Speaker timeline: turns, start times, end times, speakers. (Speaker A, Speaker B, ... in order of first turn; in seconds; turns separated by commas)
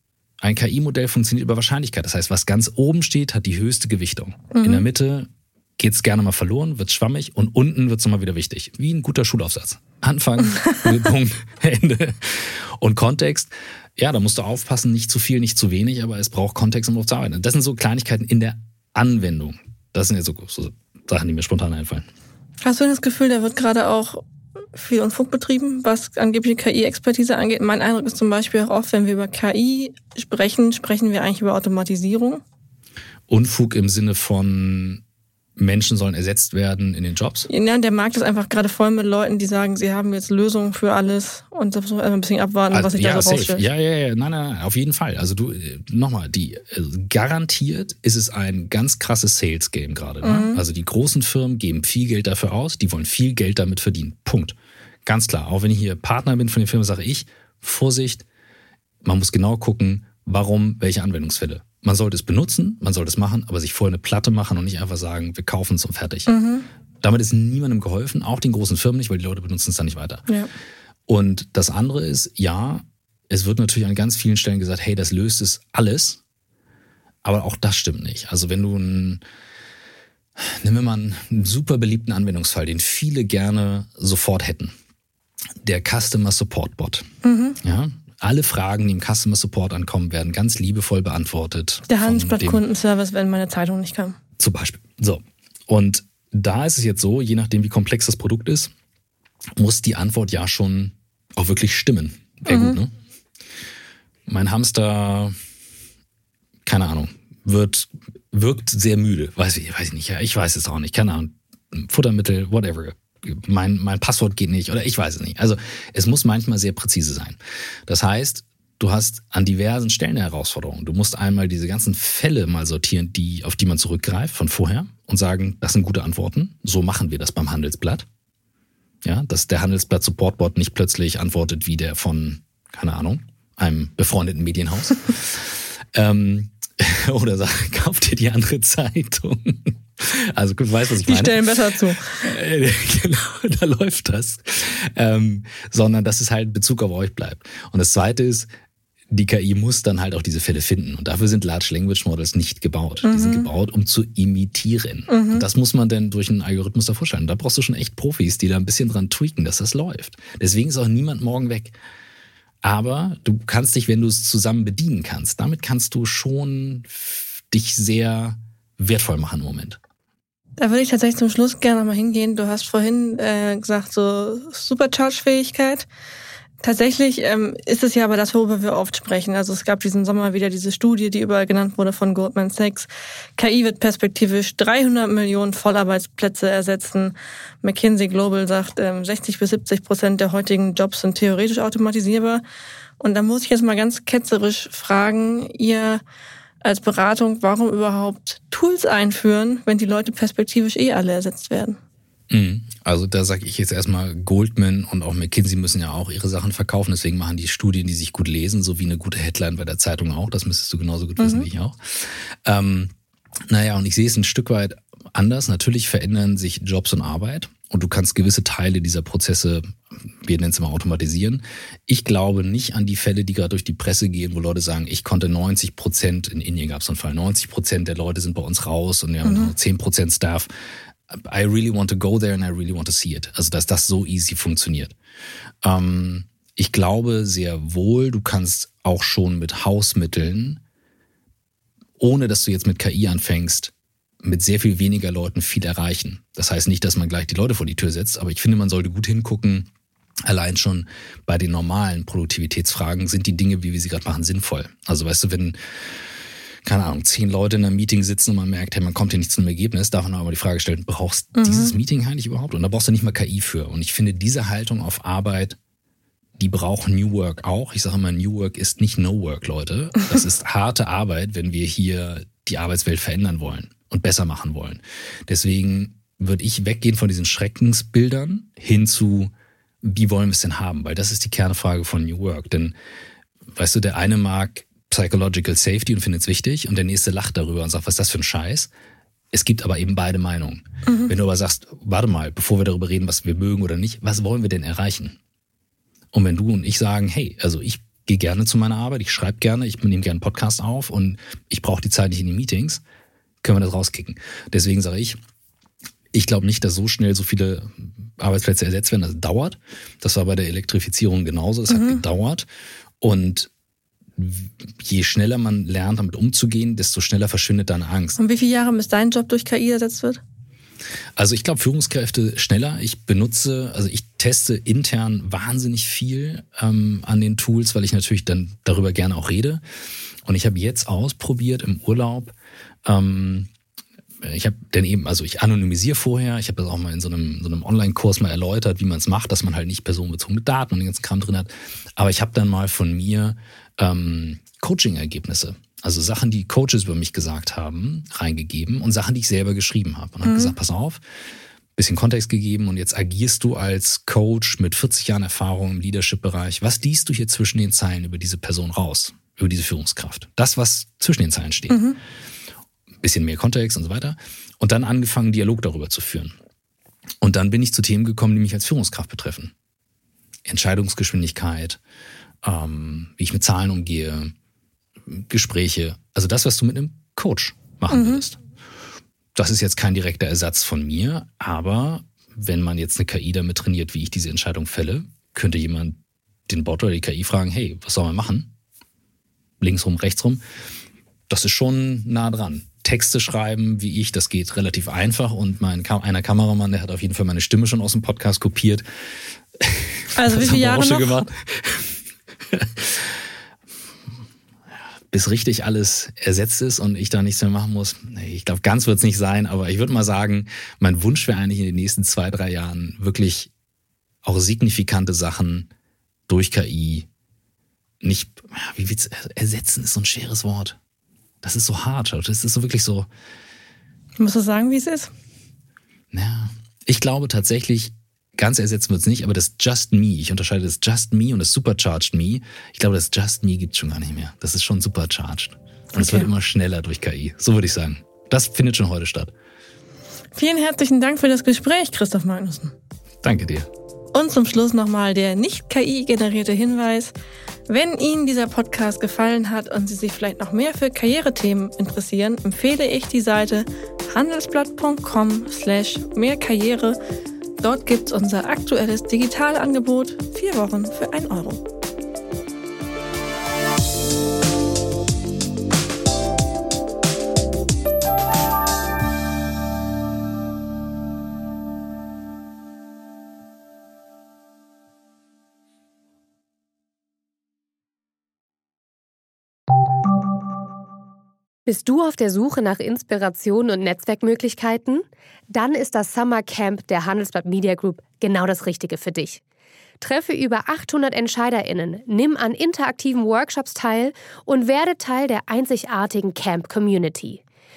Speaker A: 0.4-22.1, Speaker B: 4.5-4.8, Speaker B: 22.6-24.2, Speaker B: 24.7-32.4, Speaker A: 33.3-35.0, Speaker A: 35.6-37.5, Speaker B: 37.5-43.6, Speaker A: 42.7-58.2, Speaker B: 50.2-50.6, Speaker A: 59.0-66.3, Speaker B: 66.3-66.7, Speaker A: 67.0-70.3, Speaker A: 71.1-76.2, Speaker A: 77.2-79.2, Speaker A: 80.4-84.7, Speaker A: 85.6-87.1, Speaker B: 87.2-87.6, Speaker A: 87.6-92.6, Speaker B: 91.9-94.2, Speaker A: 94.4-98.7, Speaker A: 99.6-102.9, Speaker B: 102.5-102.8, Speaker A: 104.3-105.3, Speaker A: 106.6-128.1, Speaker A: 129.0-141.4, Speaker B: 141.0-142.2, Speaker A: 142.1-148.5, Speaker A: 149.1-161.8, Speaker B: 153.0-153.5, Speaker B: 155.1-155.4, Speaker A: 162.6-169.8, Speaker B: 170.6-175.9, Speaker B: 176.6-192.4, Speaker B: 193.0-196.0, Speaker B: 196.6-201.8, Speaker A: 202.3-212.9, Speaker B: 211.2-211.5, Speaker A: 213.5-230.5, Speaker B: 229.2-229.5, Speaker A: 231.1-234.9, Speaker A: 235.6-240.6, Speaker A: 242.0-249.7, Speaker A: 250.2-255.6, Speaker A: 256.6-265.6, Speaker B: 261.4-261.7, Speaker A: 266.4-279.3, Speaker A: 279.8-282.7, Speaker A: 283.5-288.7, Speaker A: 289.3-295.2, Speaker B: 290.9-291.1, Speaker A: 296.1-302.8, Speaker A: 303.4-305.2, Speaker A: 306.1-312.5, Speaker B: 311.7-312.0, Speaker A: 313.0-313.5, Speaker A: 314.2-318.2, Speaker B: 318.2-320.2, Speaker A: 321.1-329.6, Speaker A: 330.2-332.3, Speaker A: 332.8-333.5, Speaker A: 334.2-351.0, Speaker B: 350.2-350.5, Speaker A: 351.8-361.9, Speaker B: 361.7-362.0, Speaker A: 363.0-366.3, Speaker A: 367.2-369.5, Speaker A: 370.4-371.8, Speaker A: 372.4-374.3, Speaker A: 375.1-378.4, Speaker B: 377.9-378.2, Speaker A: 379.3-388.5, Speaker A: 389.6-390.4, Speaker A: 391.3-398.8, Speaker A: 399.6-401.9, Speaker B: 400.1-401.2, Speaker A: 402.5-403.1, Speaker A: 405.1-413.5, Speaker A: 414.2-415.7, Speaker A: 416.3-417.1, Speaker A: 418.0-420.8, Speaker A: 421.4-423.1, Speaker B: 424.2-425.1, Speaker A: 426.1-439.3, Speaker B: 435.9-436.3, Speaker B: 440.3-442.7, Speaker A: 443.2-443.7, Speaker B: 444.1-447.1, Speaker B: 447.7-457.0, Speaker B: 457.6-461.6, Speaker C: 481.6-489.4, Speaker C: 490.0-497.4